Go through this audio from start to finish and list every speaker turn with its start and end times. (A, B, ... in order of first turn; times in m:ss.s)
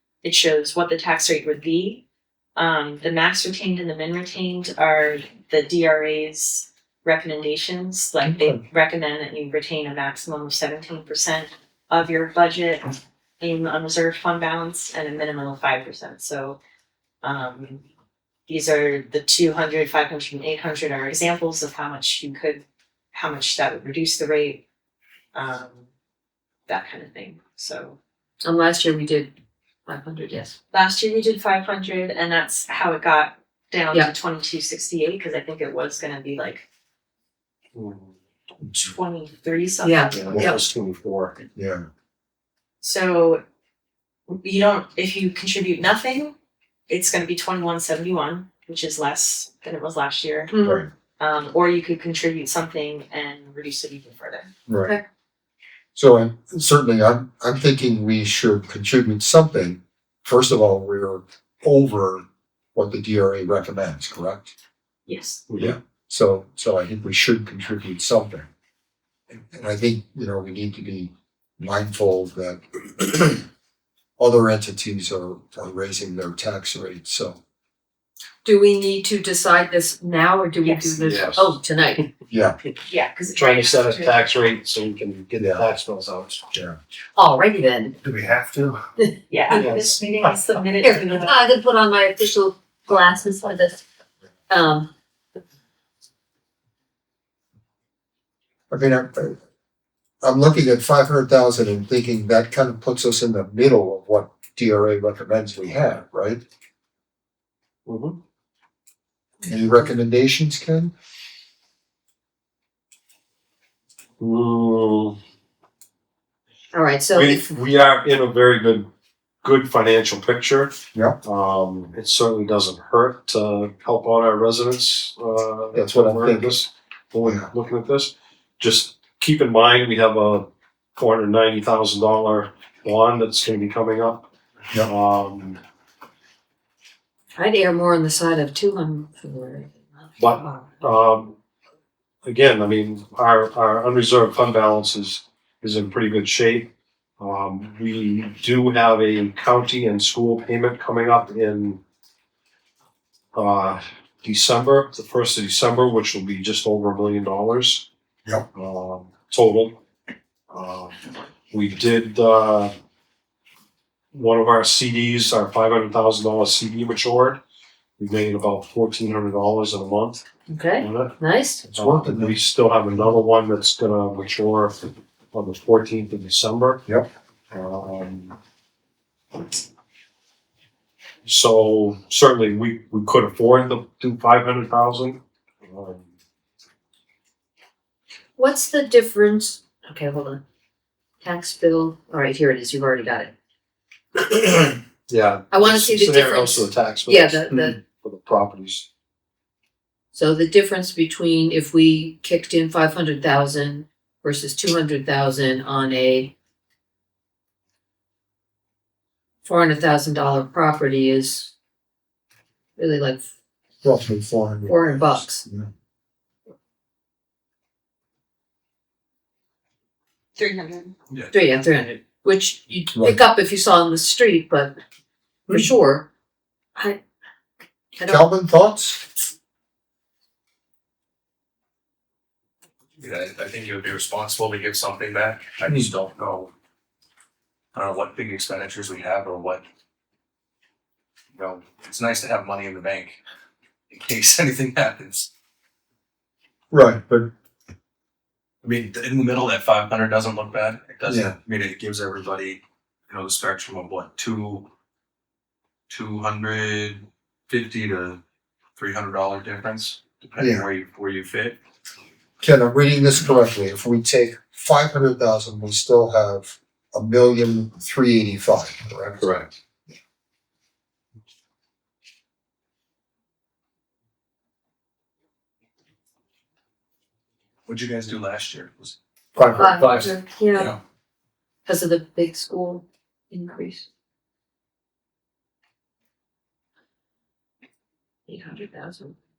0:00.2-0:02.0 A
0:02.6-0:16.6 A
0:08.2-0:08.6 B
0:17.2-0:17.8 A
0:18.5-0:24.6 A
0:25.3-0:25.9 A
0:26.7-0:28.0 A
0:28.4-0:29.3 C
0:29.9-0:30.6 C
0:30.7-0:36.7 A
0:37.7-0:38.2 D
0:38.7-0:40.2 A
0:39.8-0:40.6 C
0:40.1-0:41.4 D
0:40.3-0:40.6 B
0:41.6-0:41.9 B
0:42.8-0:43.4 A
0:44.3-0:46.3 A
0:46.9-0:50.6 A
0:50.5-0:50.9 C
0:50.6-0:50.9 B
0:51.2-0:54.5 A
0:54.7-0:54.9 B
0:56.0-1:04.5 B
1:05.1-1:05.4 A
1:05.5-1:05.8 D
1:05.6-1:08.5 B
1:09.3-1:13.4 B
1:14.2-1:17.4 B
1:18.4-1:22.0 C
1:20.6-1:21.0 A
1:21.0-1:21.6 D
1:22.3-1:22.6 B
1:22.9-1:24.3 A
1:23.3-1:26.4 D
1:25.4-1:25.7 B
1:26.5-1:26.8 B
1:27.2-1:28.0 C
1:28.0-1:28.8 B
1:29.0-1:29.9 C
1:29.3-1:31.4 A
1:29.6-1:29.9 B
1:30.8-1:33.8 C
1:34.5-1:34.9 C
1:38.7-1:39.4 B
1:40.2-1:46.4 B
1:47.9-1:48.2 D
1:49.4-1:50.9 B
1:54.2-1:55.2 D
1:56.7-1:57.5 C
1:57.1-1:58.9 D
1:59.4-2:15.6 D
2:05.7-2:06.6 B
2:07.2-2:07.5 B
2:17.4-2:19.7 C
2:20.2-2:21.4 D
2:20.3-2:20.7 C
2:22.2-2:31.8 D
2:33.3-2:37.9 D
2:38.5-2:39.8 D
2:40.5-2:41.0 D
2:41.5-2:42.7 D
2:44.1-2:47.4 D
2:48.0-2:50.2 D
2:50.5-2:51.7 C
2:50.8-2:51.2 D
2:51.6-2:52.4 B
2:51.7-2:56.8 D
2:57.5-2:58.4 D
3:01.2-3:06.1 D
3:08.4-3:10.4 C
3:11.2-3:13.3 C
3:15.1-3:18.9 D
3:15.5-3:17.8 C
3:20.1-3:26.3 C
3:29.4-3:31.5 C
3:32.8-3:33.2 C
3:33.8-3:35.7 B
3:34.7-3:35.4 C
3:40.4-3:40.9 A
3:41.3-3:44.8 C
3:45.5-3:46.1 C
3:46.8-3:47.0 C
3:48.0-3:48.2 C
3:48.0-3:49.1 B
3:53.0-3:56.5 E
3:57.8-3:59.6 E
4:01.4-4:03.2 E
4:03.9-4:05.3 E
4:06.7-4:07.3 B
4:08.6-4:14.7 E
4:11.1-4:11.4 B
4:15.9-4:18.2 E
4:18.8-4:21.6 E
4:20.4-4:20.7 B
4:22.4-4:29.3 B
4:29.2-4:29.5 D
4:37.7-4:39.0 E
4:39.4-4:40.0 B
4:39.6-4:40.7 C
4:39.6-4:40.8 E
4:41.7-4:43.9 C
4:48.3-4:49.2 C